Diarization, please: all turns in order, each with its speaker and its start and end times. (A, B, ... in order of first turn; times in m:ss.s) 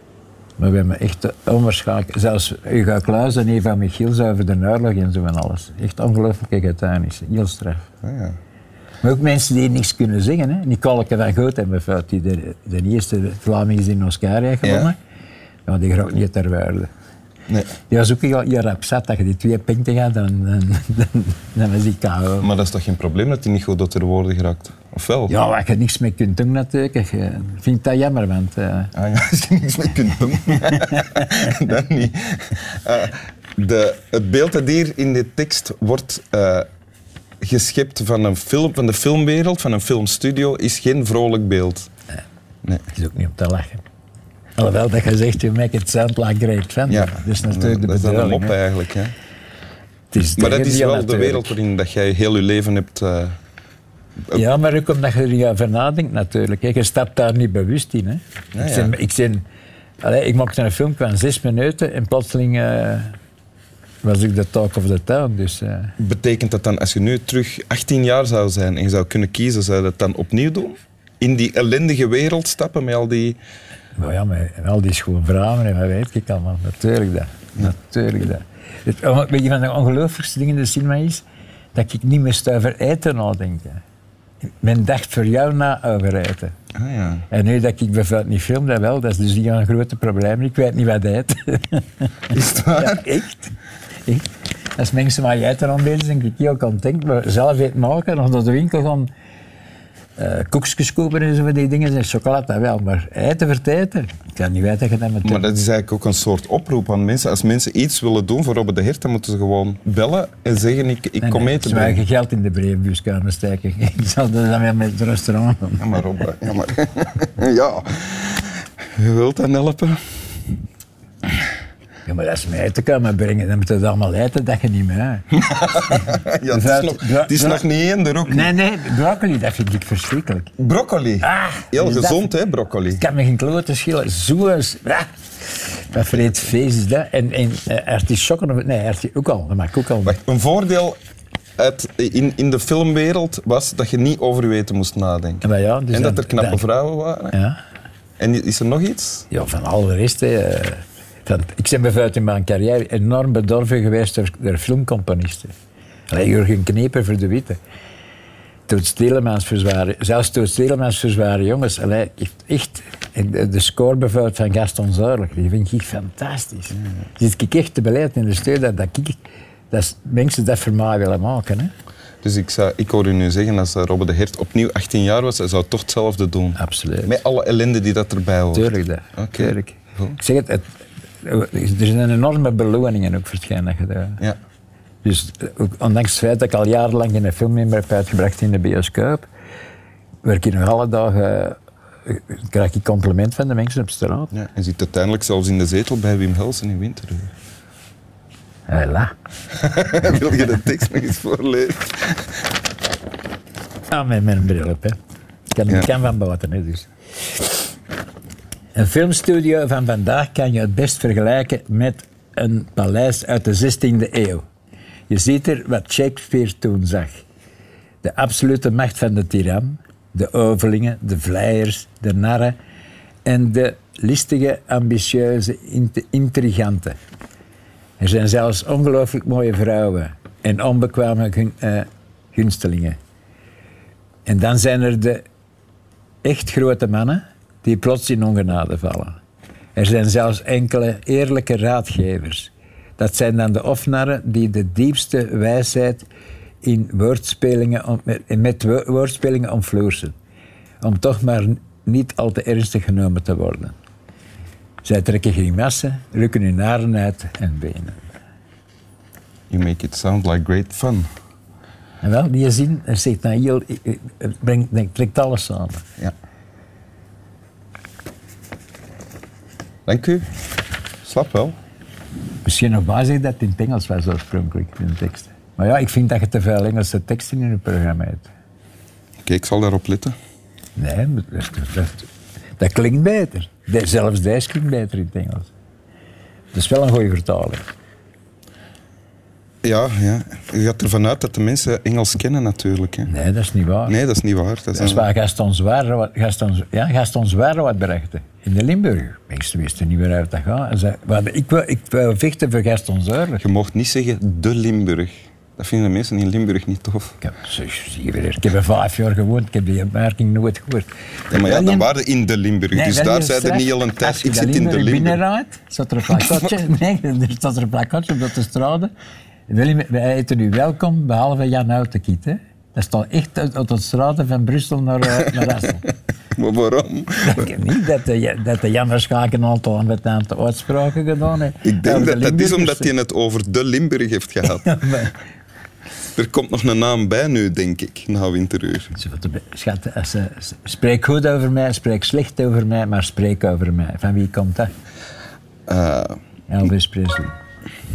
0:00.6-0:07.9 A
0:08.0-0:08.4 B
0:09.0-0:15.0 A
0:14.6-0:14.9 B
0:15.7-0:16.9 A
0:17.9-0:22.5 A
0:22.4-0:25.4 B
0:25.3-0:28.9 A
0:28.9-0:36.7 B
0:37.4-0:41.9 B
0:42.9-0:43.8 A
0:44.6-0:48.6 A
0:46.9-0:49.2 B
0:50.1-0:51.6 A
0:50.4-0:53.4 B
0:54.3-0:59.4 A
0:58.5-0:58.9 B
1:00.0-1:03.2 A
1:04.0-1:05.9 A
1:06.0-1:13.4 B
1:14.0-1:21.2 A
1:21.8-1:23.8 A
1:24.6-1:26.5 A
1:26.8-1:27.2 B
1:27.3-1:33.6 A
1:32.3-1:33.1 B
1:34.8-1:39.1 A
1:40.2-1:45.4 A
1:45.2-1:52.0 B
1:51.2-1:56.0 A
1:55.8-2:00.0 B
2:02.1-2:07.7 A
2:05.5-2:08.5 B
2:08.3-2:10.5 A
2:10.6-2:13.0 B
2:11.2-2:12.3 A
2:12.9-2:20.2 A
2:15.9-2:16.3 B
2:20.0-2:21.0 B
2:21.6-2:27.4 B
2:25.4-2:26.6 A
2:27.3-2:27.6 A
2:28.2-2:29.3 B
2:29.3-2:35.5 A
2:36.1-2:37.6 A
2:38.7-2:49.2 A
2:49.7-2:51.7 A
2:52.2-3:00.2 B
2:56.6-2:57.2 A
2:58.5-3:00.7 A
3:01.2-3:04.2 A
3:05.0-3:09.3 A
3:10.2-3:14.3 A
3:14.3-3:17.3 B
3:18.7-3:19.1 A
3:19.5-3:22.2 B
3:23.9-3:25.0 A
3:25.5-3:26.9 A
3:28.8-3:34.4 A
3:35.1-3:37.2 A
3:38.0-3:42.6 A
3:43.2-3:47.0 A
3:48.0-3:53.0 A
3:54.3-3:55.2 A
3:56.2-3:59.2 A
3:59.8-4:06.0 A
4:06.6-4:10.1 A
4:10.8-4:13.8 A
4:14.8-4:18.1 A
4:19.5-4:21.1 B
4:22.0-4:25.8 A
4:29.9-4:30.3 B
4:31.0-4:31.6 B
4:32.4-4:38.3 A
4:39.2-4:40.2 B
4:40.8-4:42.1 A
4:42.6-4:45.5 A
4:46.5-4:47.7 A
4:49.6-4:53.1 B
4:53.1-4:54.0 A
4:53.9-4:55.1 B
4:54.8-5:03.4 A
5:03.4-5:07.2 B
5:07.2-5:11.9 A
5:11.3-5:15.2 B
5:12.7-5:18.9 A
5:16.2-5:16.5 B
5:19.5-5:25.8 A
5:26.4-5:27.6 B
5:27.2-5:32.9 A
5:31.6-5:34.8 B
5:34.5-5:35.1 A
5:36.2-5:38.9 B
5:39.0-5:44.7 A
5:45.7-5:46.2 B
5:46.5-5:47.3 A